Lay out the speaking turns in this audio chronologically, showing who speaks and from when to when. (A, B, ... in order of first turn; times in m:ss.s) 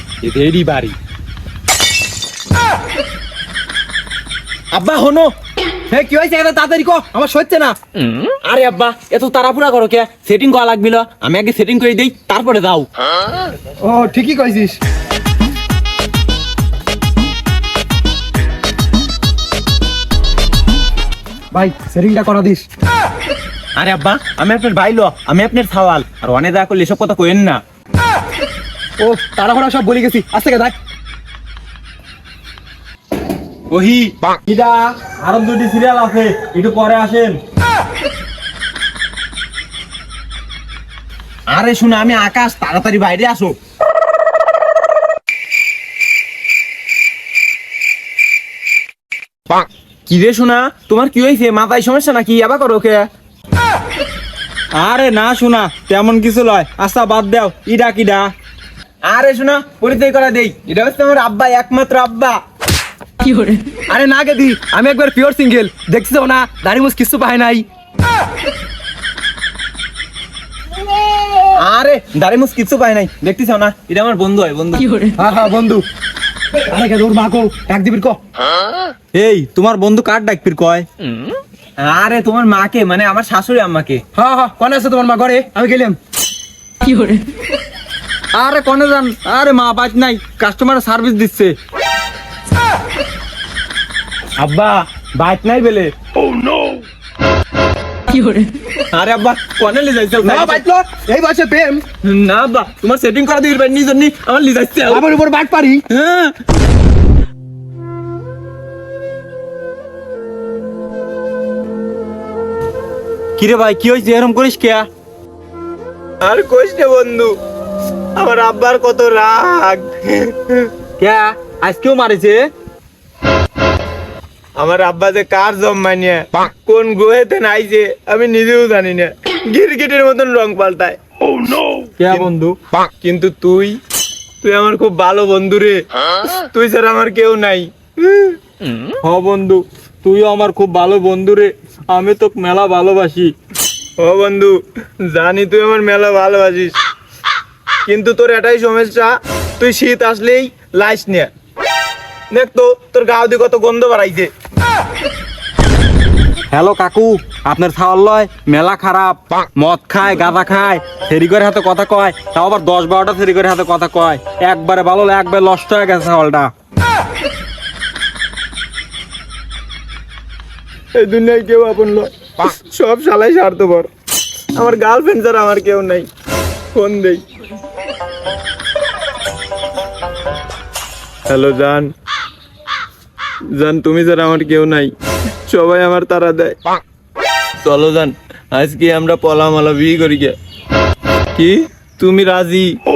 0:00.2-0:00.9 A
0:04.7-0:05.3 A
0:05.9-0:07.7 B
0:08.4-0:12.9 A
0:13.8-0:14.8 B
0:21.5-0:22.6 B
0:23.8-0:27.6 A
0:29.0-0:30.7 B
0:33.7-0:34.1 A
0:34.5-0:37.4 C
0:41.5-0:43.6 A
0:50.1-0:53.1 A
0:54.7-0:58.3 C
0:59.1-1:02.4 A
1:03.9-1:07.6 B
1:11.6-1:14.9 A
1:15.2-1:15.8 B
1:16.6-1:18.2 B
1:19.1-1:20.8 C
1:21.8-1:24.0 A
1:24.1-1:26.0 B
1:28.3-1:31.5 C
1:34.4-1:35.9 A
1:38.9-1:40.6 A
1:40.2-1:41.8 B
1:42.0-1:45.1 A
1:44.9-1:45.8 B
1:45.9-1:46.3 A
1:53.4-1:54.8 C
1:56.2-1:57.3 A
1:58.2-2:00.7 A
2:01.0-2:02.4 C
2:04.6-2:11.0 A
2:12.0-2:12.6 C
2:13.0-2:13.8 A
2:14.4-2:18.4 A
2:19.0-2:23.3 C
2:24.0-2:26.8 A
2:27.9-2:31.3 A
2:32.3-2:34.3 A
2:36.5-2:46.5 C
2:51.0-2:53.9 A
2:54.5-2:56.1 A
2:56.7-2:57.2 A
3:01.3-3:01.9 A
3:03.6-3:04.9 A
3:05.5-3:06.6 A
3:07.6-3:10.3 A
3:11.3-3:12.7 A